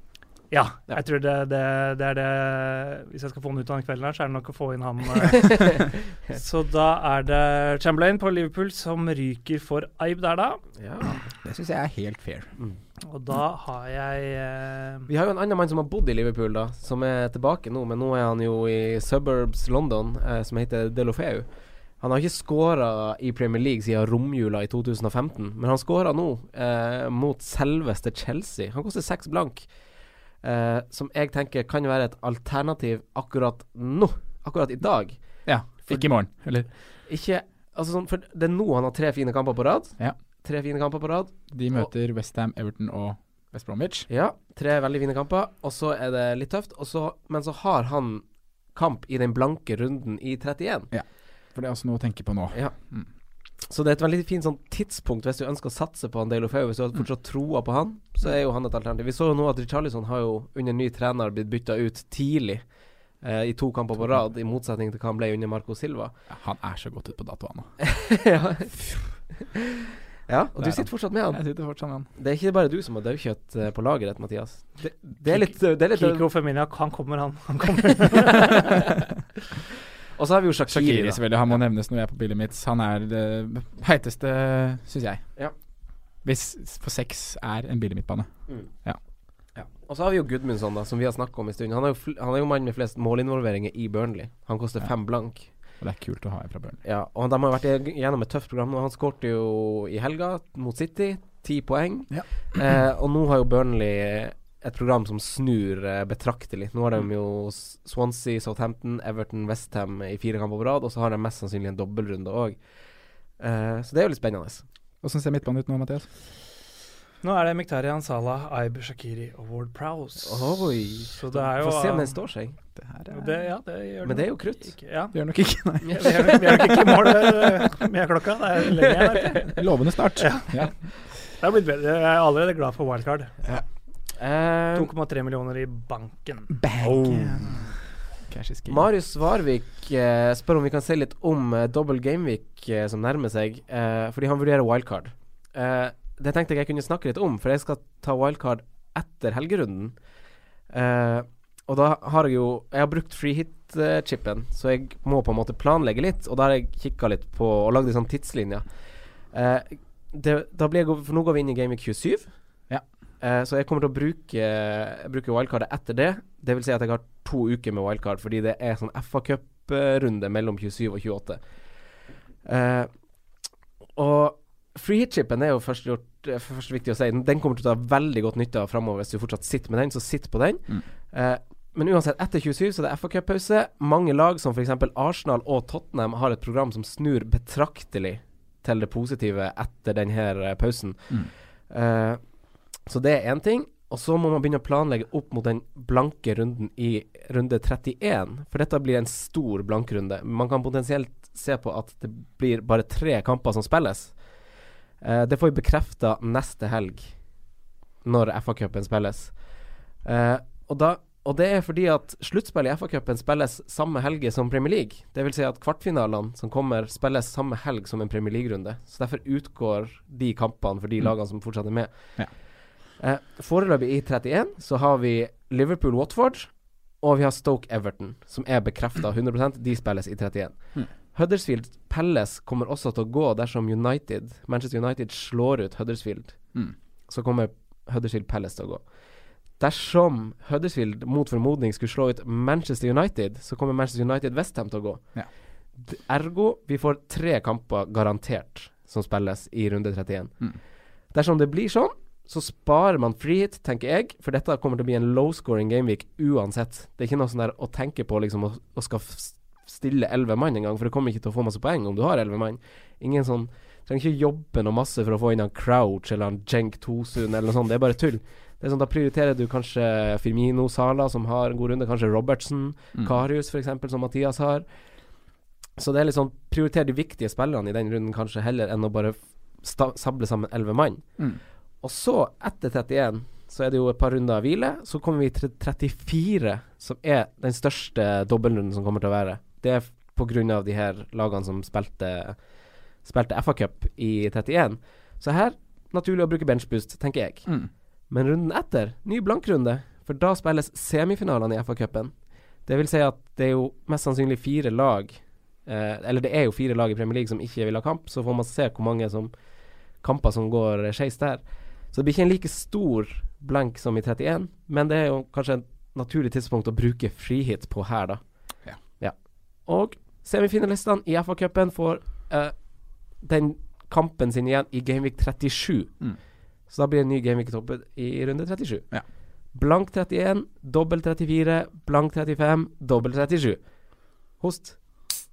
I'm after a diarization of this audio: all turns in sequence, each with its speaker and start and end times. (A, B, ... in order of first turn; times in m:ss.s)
0:00.5-0:10.6 A
0:05.3-0:06.4 B
0:10.8-0:11.2 B
0:11.3-0:12.5 C
0:13.0-0:15.1 A
0:15.1-0:21.5 B
0:22.0-0:29.7 B
0:30.4-0:35.2 B
0:35.5-0:36.7 C
0:35.8-0:36.1 B
0:37.0-0:41.9 B
0:41.5-0:44.1 C
0:44.1-0:50.9 B
0:50.9-0:53.1 C
0:53.7-1:02.6 B
1:03.2-1:06.1 B
1:06.3-1:07.8 C
1:07.8-1:08.8 B
1:08.8-1:09.0 C
1:09.4-1:11.4 B
1:10.6-1:12.1 C
1:12.2-1:16.2 B
1:15.3-1:18.9 A
1:20.2-1:21.6 B
1:20.7-1:25.2 C
1:26.2-1:28.3 C
1:29.6-1:35.5 B
1:35.8-1:36.8 C
1:36.8-1:52.6 B
1:53.4-1:54.6 B
1:55.0-1:56.1 C
1:57.2-2:02.2 A
2:00.2-2:02.6 B
2:02.8-2:03.2 C
2:03.1-2:05.2 A
2:04.0-2:04.7 B
2:05.1-2:06.8 C
2:05.9-2:09.6 A
2:06.0-2:06.7 B
2:08.8-2:09.4 B
2:09.6-2:10.7 C
2:10.2-2:10.7 A
2:11.4-2:13.3 A
2:14.2-2:14.9 B
2:14.8-2:16.6 A
2:16.6-2:17.7 C
2:16.8-2:17.5 B
2:18.3-2:18.9 C
2:18.7-2:30.0 B
2:30.7-2:38.7 B
2:39.3-2:42.3 B
2:43.2-2:51.4 B
2:52.4-2:52.9 B
2:54.0-3:12.2 B
3:12.9-3:24.2 B
3:25.0-3:27.2 B
3:28.0-3:29.4 B
3:30.0-3:42.3 B
3:43.0-3:56.4 B
3:57.1-3:58.8 B
3:59.6-4:05.1 B
4:05.8-4:10.4 B
4:11.1-4:34.7 B
4:35.8-4:41.1 B
4:41.8-4:52.4 B
4:53.0-4:57.5 B
4:58.1-5:09.3 B
5:10.0-5:18.2 B
5:19.0-5:22.6 B
5:23.2-5:26.0 B
5:26.7-5:28.9 B
5:29.5-5:33.7 B
5:34.4-5:35.1 B